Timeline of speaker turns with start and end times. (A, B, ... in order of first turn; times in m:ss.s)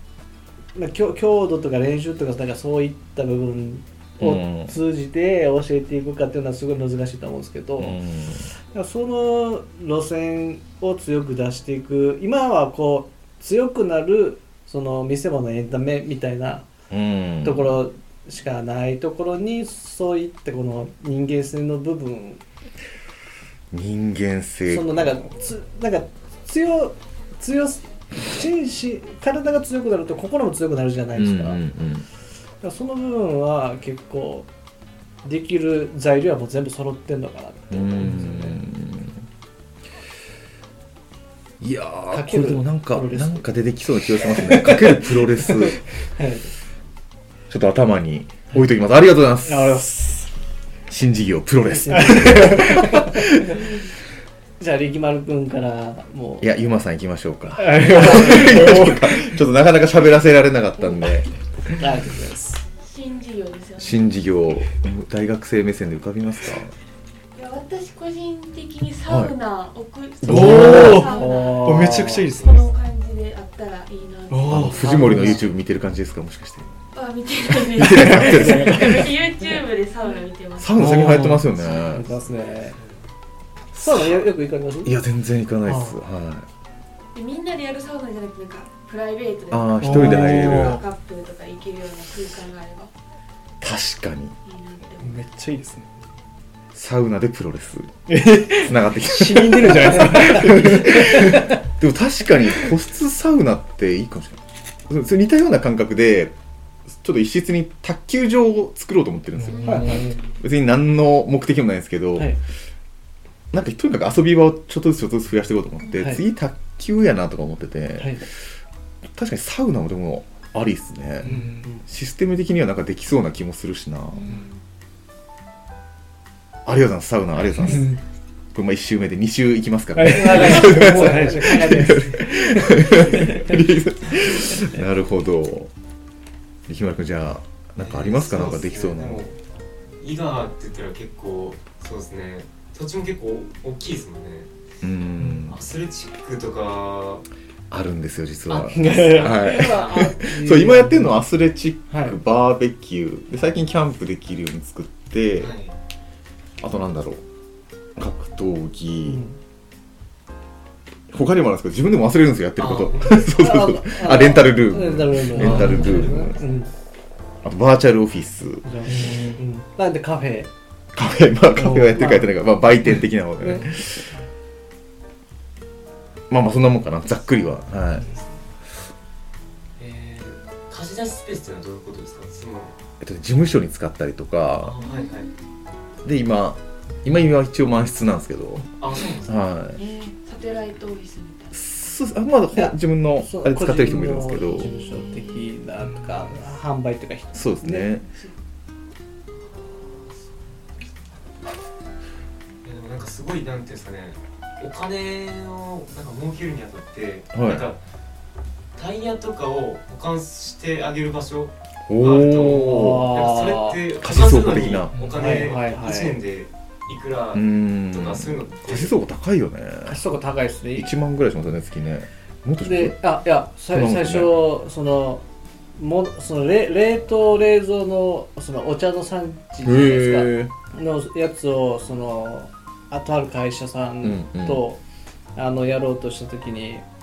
0:00.7-0:08.0 A
0:04.2-0:04.7 B
0:07.8-0:08.5 B
0:08.7-0:16.7 A
0:16.9-0:17.8 B
0:17.4-0:22.4 A
0:23.7-0:25.2 B
0:24.7-0:31.6 A
0:31.2-0:32.0 B
0:32.6-0:34.5 A
0:35.2-0:38.6 A
0:37.7-0:39.2 B
0:41.6-0:45.8 B
0:42.1-0:43.5 A
0:44.4-0:44.9 A
0:46.2-0:46.5 A
0:47.5-0:49.9 B
0:49.4-0:50.3 C
0:50.9-0:53.5 B
0:51.7-0:53.3 A
0:51.9-0:53.0 C
0:54.6-0:56.6 A
0:56.4-1:01.3 B
0:57.6-0:59.4 C
0:57.9-0:58.6 A
1:01.7-1:02.6 A
1:02.8-1:04.0 D
1:03.8-1:06.7 B
1:07.3-1:15.3 D
1:09.0-1:09.3 B
1:10.2-1:11.0 B
1:10.2-1:12.6 C
1:10.4-1:12.3 A
1:14.3-1:15.4 C
1:14.5-1:16.7 B
1:14.8-1:15.4 A
1:16.9-1:21.9 D
1:17.7-1:19.0 B
1:17.8-1:19.1 C
1:20.6-1:22.0 B
1:20.8-1:21.4 C
1:21.6-1:22.8 A
1:23.7-1:24.9 A
1:23.8-1:24.2 B
1:24.8-1:26.5 B
1:27.1-1:32.9 D
1:29.5-1:30.8 B
1:29.8-1:30.8 C
1:33.6-1:34.3 B
1:34.4-1:35.4 D
1:35.0-1:35.8 C
1:36.7-1:37.9 B
1:38.1-1:41.6 C
1:38.6-1:46.3 B
1:46.9-1:52.3 B
1:49.4-1:50.2 C
1:49.6-1:50.1 A
1:53.5-1:58.2 B
1:56.0-1:56.2 A
1:59.1-2:04.3 B
2:01.2-2:01.6 C
2:01.2-2:01.8 A
2:04.1-2:04.6 D
2:06.6-2:07.9 B
2:07.6-2:08.0 D
2:07.6-2:08.0 C
2:08.5-2:15.7 B
2:10.0-2:12.1 C
2:10.0-2:12.2 A
2:16.7-2:19.2 B
2:17.8-2:19.4 E
2:20.0-2:24.5 E
2:24.8-2:25.6 B
2:25.5-2:27.2 E
2:27.7-2:35.5 B
2:28.5-2:30.0 E
2:28.5-2:31.2 A
2:28.7-2:29.2 C
2:31.9-2:32.2 A
2:35.4-2:35.7 E
2:36.6-2:37.2 B
2:38.0-2:39.2 B
2:39.0-2:39.4 A
2:41.1-2:46.4 B
2:42.6-2:43.3 E
2:43.3-2:46.7 A
2:45.4-2:46.2 C
2:47.4-2:48.9 B
2:48.6-2:50.5 A
2:48.9-2:49.4 C
2:50.9-2:54.1 B
2:51.6-2:52.1 C
2:51.9-2:52.3 A
2:56.3-2:58.1 B
2:59.8-3:02.7 E
3:03.0-3:04.7 B
3:04.6-3:05.3 E
3:04.8-3:05.3 D
3:06.0-3:09.8 B
3:08.8-3:09.5 E
3:09.8-3:11.6 D
3:11.5-3:14.7 B
3:12.5-3:17.9 A
3:17.3-3:18.1 B
3:19.3-3:20.9 E
3:22.6-3:27.8 E
3:27.3-3:27.6 B
3:28.8-3:38.9 E
3:31.9-3:33.1 B
3:32.4-3:33.8 A
3:34.0-3:34.9 B
3:35.1-3:36.2 A
3:37.3-3:40.0 B
3:39.8-3:40.9 A
3:40.8-3:43.0 B
3:42.6-3:45.2 A
3:43.7-3:44.3 B
3:45.8-3:54.8 A
3:49.6-3:50.5 B
3:54.0-3:54.6 B
3:55.4-3:56.8 A